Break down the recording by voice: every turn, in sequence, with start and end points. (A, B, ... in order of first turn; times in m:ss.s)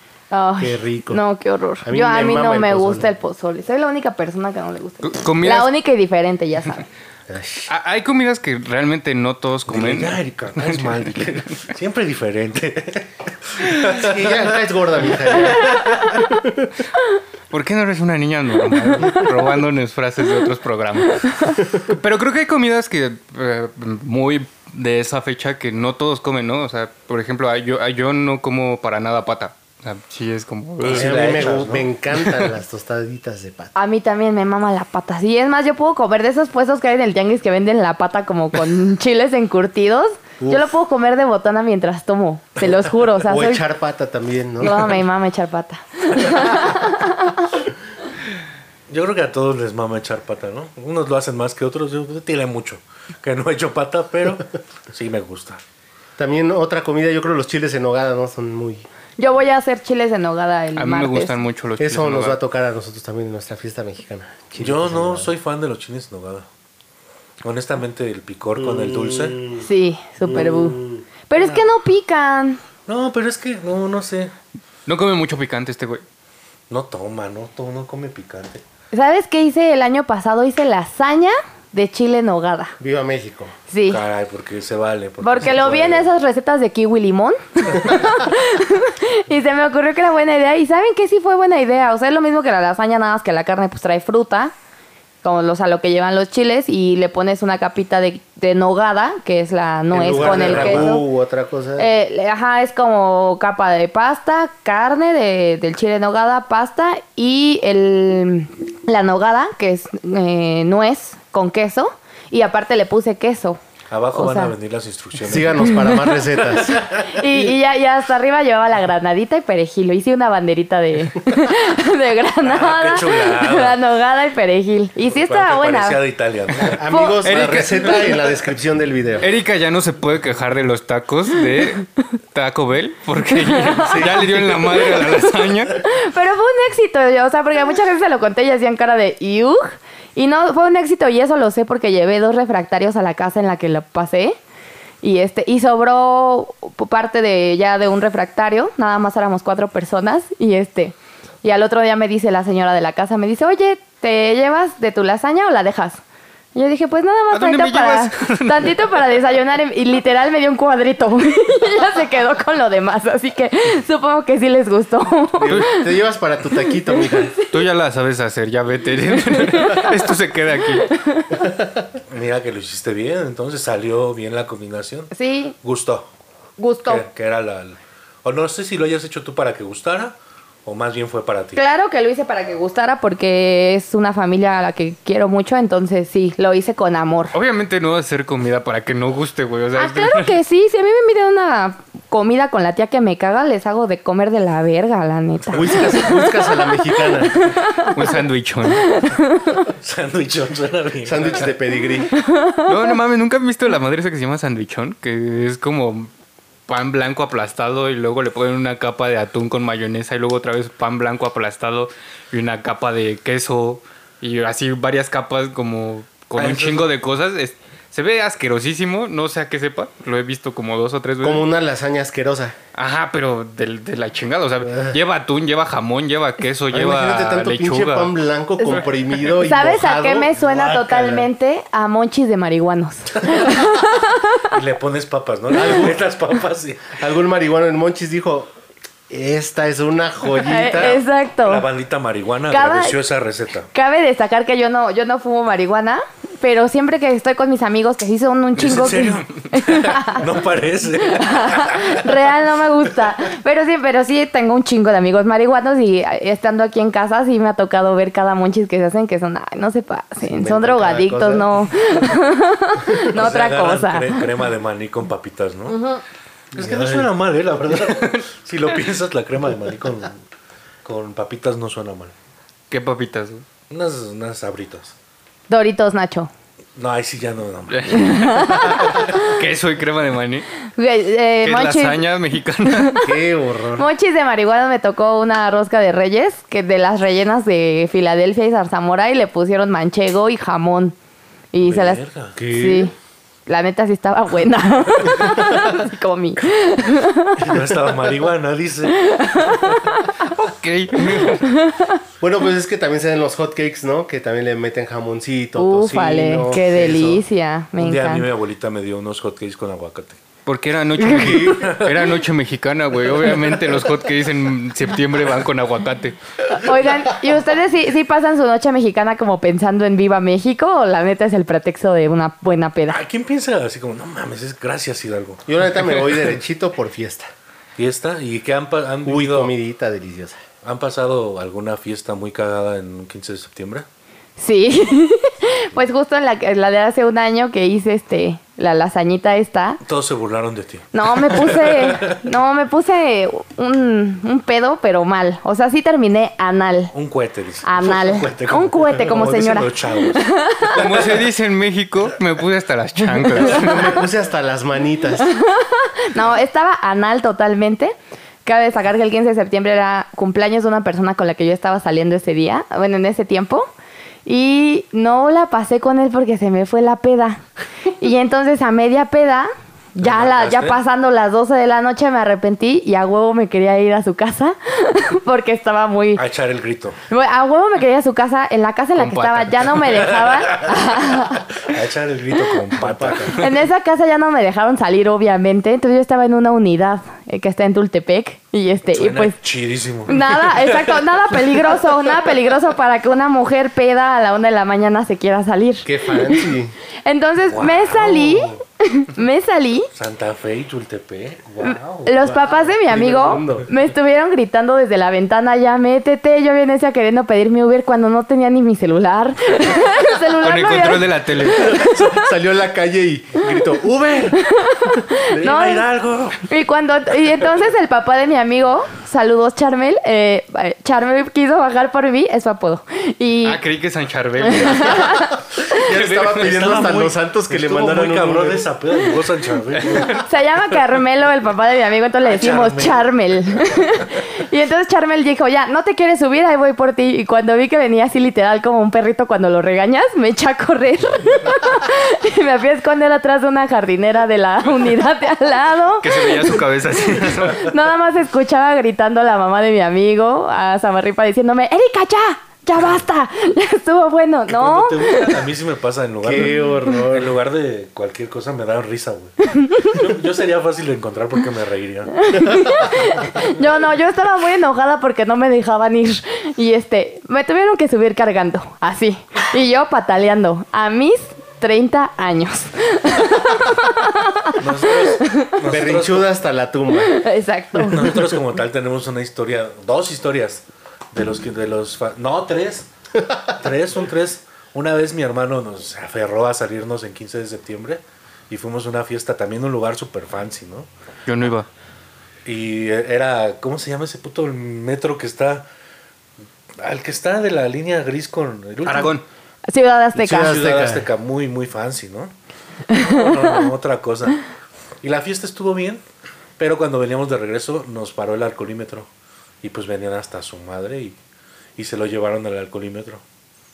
0:00.3-0:06.9 A
0:00.6-0:01.2 B
0:01.8-0:03.1 B
0:05.0-0:05.7 C
0:07.3-0:07.7 B
0:07.7-0:11.1 C
0:09.7-0:16.2 D
0:13.8-0:16.7 B
0:17.5-0:31.5 C
0:30.8-0:31.9 D
0:30.8-0:33.7 B
0:33.8-0:43.6 A
0:40.4-0:40.7 B
0:43.2-0:45.0 B
0:44.6-0:47.5 A
0:48.9-0:55.6 D
0:56.2-0:58.9 B
0:59.2-1:01.3 A
1:00.8-1:02.4 C
1:01.8-1:05.3 B
1:04.6-1:06.5 D
1:07.4-1:09.4 D
1:08.6-1:09.7 B
1:09.6-1:12.6 A
1:10.2-1:11.0 B
1:11.4-1:11.6 D
1:12.9-1:14.3 D
1:14.9-1:16.0 C
1:16.7-1:18.6 D
1:18.9-1:22.8 A
1:22.8-1:23.5 B
1:23.7-1:24.0 A
1:23.9-1:26.1 D
1:25.2-1:34.5 A
1:35.2-1:41.0 A
1:39.9-1:41.9 B
1:40.0-1:41.0 D
1:41.8-1:53.6 A
1:53.9-1:57.2 D
1:54.1-1:54.5 A
1:55.2-1:56.8 B
1:57.1-2:06.0 A
2:02.4-2:03.8 D
2:05.1-2:06.8 D
2:06.6-2:09.3 B
2:06.9-2:07.2 A
2:07.2-2:08.1 C
2:09.2-2:15.8 C
2:13.4-2:14.1 A
2:13.8-2:15.2 D
2:14.7-2:15.1 A
2:15.8-2:24.4 A
2:25.0-2:36.0 A
2:36.6-2:45.9 A
2:37.3-2:38.8 C
2:45.4-2:47.4 B
2:46.9-2:47.5 A
2:47.5-2:51.0 C
2:49.3-2:50.1 A
2:50.8-2:51.4 A
2:52.1-2:56.1 D
2:55.1-2:55.6 A
2:56.6-2:57.1 A
2:56.9-3:01.6 D
3:01.6-3:07.4 A
3:07.3-3:10.3 C
3:09.8-3:18.1 A
3:15.5-3:17.4 B
3:17.8-3:19.0 C
3:18.7-3:19.6 A
3:19.8-3:21.5 D
3:21.0-3:22.2 B
3:22.2-3:22.7 A
3:22.6-3:26.1 C
3:26.7-3:41.5 C
3:36.4-3:36.9 D
3:41.2-3:42.6 B
3:42.8-3:48.1 C
3:46.7-3:51.1 B
3:48.6-3:48.9 A
3:49.4-3:54.5 A
3:50.5-3:51.2 D
3:54.5-3:57.0 D
3:55.5-3:56.0 B
3:57.0-3:58.5 B
3:59.1-4:01.0 B
4:00.4-4:01.7 A
4:01.4-4:03.7 D
4:02.5-4:03.0 A
4:03.7-4:10.2 A
4:08.6-4:12.2 D
4:11.1-4:24.2 A
4:20.2-4:21.5 B
4:23.1-4:25.8 D
4:26.5-4:27.1 B
4:26.5-4:30.2 D
4:30.8-4:32.1 D
4:32.7-4:33.4 C
4:33.7-4:34.9 D
4:35.5-4:36.3 A
4:36.8-4:38.1 D
4:37.7-4:40.5 C
4:37.9-4:39.3 A
4:40.8-4:42.0 A
4:41.4-4:43.0 C
4:42.7-4:43.0 A
4:43.0-4:43.9 B
4:43.8-4:51.0 A
4:51.5-4:52.9 A
4:51.6-4:52.4 D
4:52.4-4:52.9 B
4:53.5-4:57.5 A
4:57.4-4:59.5 D
4:59.0-5:00.1 A
5:00.2-5:01.5 C
5:01.3-5:02.0 A
5:02.2-5:07.2 B
5:05.6-5:08.3 A
5:07.8-5:10.2 D
5:10.5-5:16.2 C
5:11.1-5:11.5 A
5:11.1-5:12.0 D
5:16.5-5:23.0 A
5:22.9-5:26.3 D
5:25.5-5:27.3 B
5:27.8-5:29.5 D
5:29.0-5:30.4 B
5:30.6-5:33.9 D
5:34.4-5:39.8 A
5:39.8-5:42.2 D
5:40.9-5:46.9 A
5:46.9-5:51.2 D
5:47.6-5:50.8 A
5:50.7-5:54.0 C
5:53.4-5:55.3 B
5:55.2-5:57.9 A
5:58.4-6:03.7 A
6:04.3-6:07.4 A
6:08.0-6:16.2 A
6:10.0-6:10.8 D
6:16.2-6:17.0 D
6:17.1-6:21.5 A
6:19.0-6:19.9 C
6:19.9-6:23.5 D
6:22.8-6:23.3 B
6:23.3-6:29.4 A
6:28.9-6:31.8 D
6:30.1-6:36.5 A
6:35.8-6:36.8 B
6:37.0-6:39.9 A
6:37.5-6:38.6 D
6:39.9-6:42.5 D
6:41.6-6:52.1 A
6:42.8-6:43.7 B
6:50.4-6:51.8 C
6:51.5-6:54.4 B
6:54.4-6:55.9 A
6:55.3-6:56.4 D
6:56.4-7:03.6 A
7:03.4-7:06.8 C
7:04.4-7:05.7 A
7:05.6-7:08.7 B
7:06.3-7:10.2 D
7:09.9-7:10.2 C
7:10.2-7:35.5 A
7:12.2-7:14.1 D
7:26.0-7:27.7 C
7:34.5-7:43.1 D
7:36.2-7:37.4 B
7:39.5-7:40.0 A
7:42.2-7:55.6 A
7:54.6-7:56.3 D
7:55.7-7:57.2 B
7:57.0-7:58.1 A
7:57.9-8:02.9 D
8:03.4-8:10.9 D
8:11.3-8:11.7 C
8:12.4-8:15.7 D
8:16.8-8:19.2 D
8:18.8-8:19.2 C
8:19.7-8:20.6 A
8:20.2-8:21.1 B
8:20.3-8:22.3 D
8:22.9-8:24.4 D
8:22.9-8:23.2 A
8:25.0-8:26.0 D
8:26.6-8:29.1 D
8:29.6-8:31.2 D
8:31.8-8:33.2 D